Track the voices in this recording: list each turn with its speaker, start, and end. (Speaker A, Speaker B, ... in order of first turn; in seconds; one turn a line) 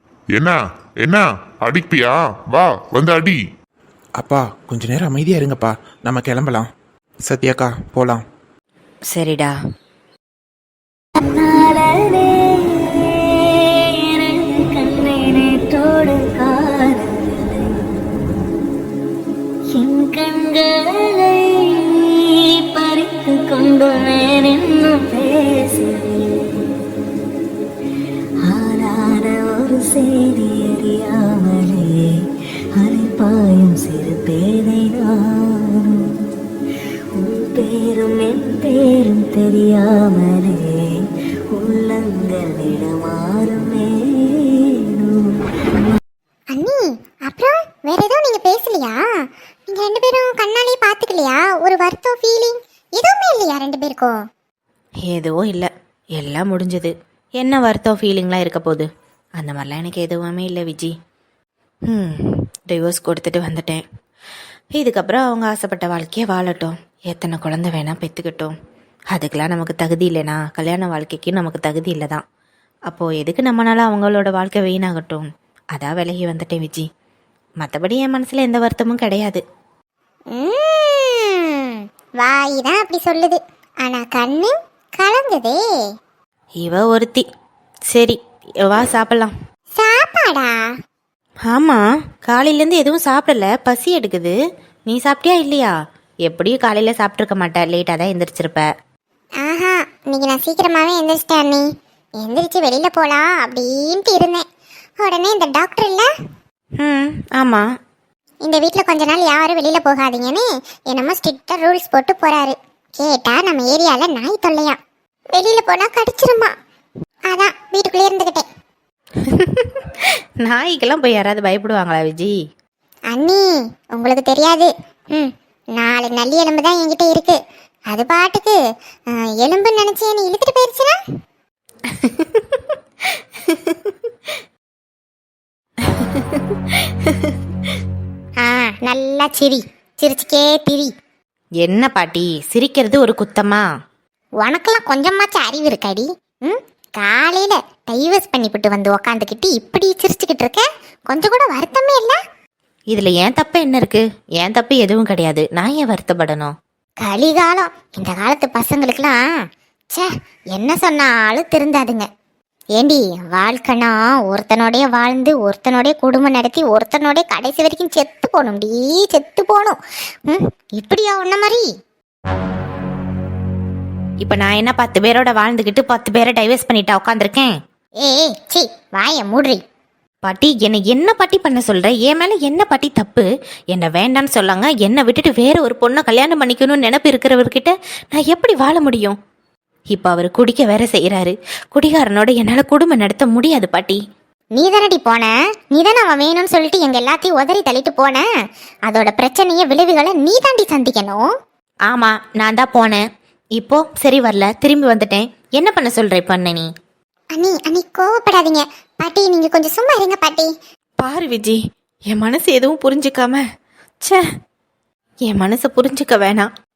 Speaker A: 0.3-3.4
Speaker B: 4.2-6.7
Speaker B: 7.2-8.2
Speaker C: 9.1-9.5
Speaker D: 11.2-18.5
Speaker D: 19.7-26.7
Speaker D: 28.4-36.3
Speaker D: 37.1-46.0
Speaker E: 46.5-49.0
Speaker E: 49.7-54.1
Speaker C: 55.0-58.9
Speaker C: 59.4-60.9
Speaker C: 61.9-63.8
Speaker C: 64.7-68.5
Speaker C: 69.1-72.2
Speaker C: 72.9-76.8
Speaker C: 77.6-79.4
Speaker E: 80.3-85.6
Speaker C: 86.6-87.2
Speaker C: 87.9-89.3
Speaker E: 89.7-90.6
Speaker C: 91.5-94.3
Speaker C: 94.9-95.7
Speaker C: 96.2-98.7
Speaker E: 99.4-101.7
Speaker E: 102.2-104.4
Speaker E: 105.0-106.1
Speaker C: 106.8-107.6
Speaker E: 108.4-114.8
Speaker E: 115.3-116.5
Speaker E: 117.3-118.4
Speaker C: 119.3-122.4
Speaker E: 123.1-128.6
Speaker E: 129.1-131.0
Speaker C: 131.9-132.8
Speaker C: 133.5-133.9
Speaker C: 135.9-137.3
Speaker E: 138.4-140.9
Speaker C: 141.6-143.7
Speaker E: 144.4-152.2
Speaker C: 152.9-156.5
Speaker E: 157.0-159.2
Speaker E: 159.9-162.1
Speaker E: 162.8-171.7
Speaker C: 174.2-177.6
Speaker E: 178.0-179.6
Speaker C: 180.2-189.2
Speaker C: 189.9-194.0
Speaker E: 194.5-198.3
Speaker E: 198.9-201.2
Speaker C: 201.9-203.0
Speaker C: 203.5-206.7
Speaker E: 207.3-210.5
Speaker C: 211.0-213.4
Speaker C: 215.3-216.5